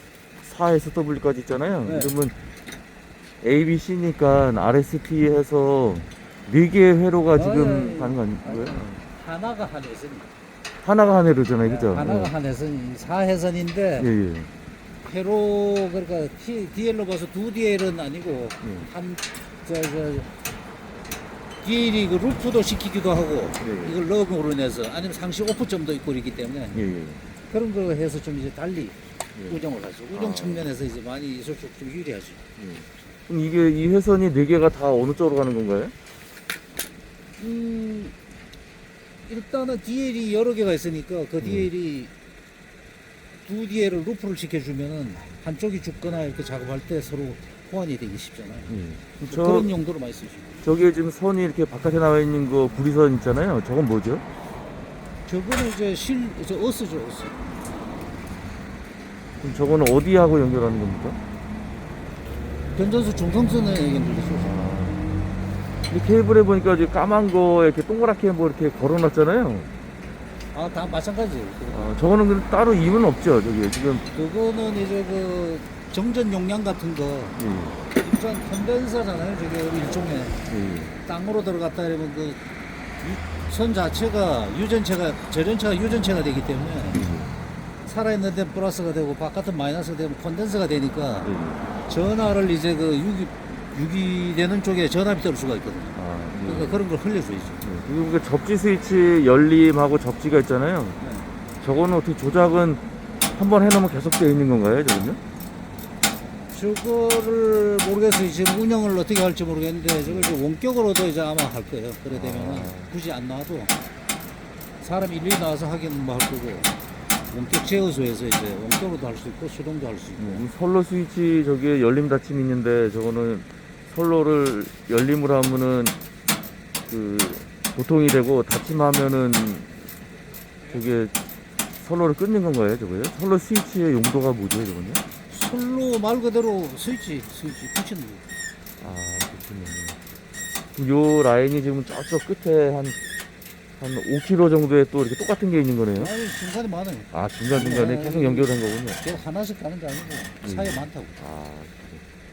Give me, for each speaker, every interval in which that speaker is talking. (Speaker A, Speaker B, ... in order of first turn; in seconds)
Speaker A: 0.4-2.4, 3.4-9.0, 10.8-12.3, 14.0-14.5, 18.6-18.9, 23.6-24.0, 26.7-27.2, 29.4-29.6, 30.1-30.7, 32.6-35.9, 41.4-41.7, 48.7-49.8, 50.6-54.2, 59.4-61.2, 64.4-65.0, 65.9-69.7, 71.7-74.0, 77.4-77.8, 80.5-81.0, 86.9-87.4, 91.2-91.6, 96.0-96.8, 97.6-101.0, 101.6-102.8, 103.3-105.2, 110.0-110.3, 112.1-112.9, 120.2-126.0, 126.9-129.7, 130.7-131.1, 131.8-135.0, 138.8-140.0, 140.7-143.0, 143.8-146.1, 147.1-149.0, 150.4-152.0
Speaker B: 1.8-2.1, 7.3-10.3, 11.6-14.1, 15.0-20.3, 21.6-26.8, 27.5-29.0, 29.5-32.4, 37.4-38.1, 39.3-42.1, 43.4-50.5, 55.3-57.5, 62.8-64.7, 70.5-72.0, 74.1-77.4, 77.9-80.4, 81.0-82.4, 83.0-87.0, 87.8-91.3, 91.9-97.6, 101.0-101.3, 106.5-113.7, 114.8-116.7, 117.3-120.5, 135.3-138.2, 145.9-151.2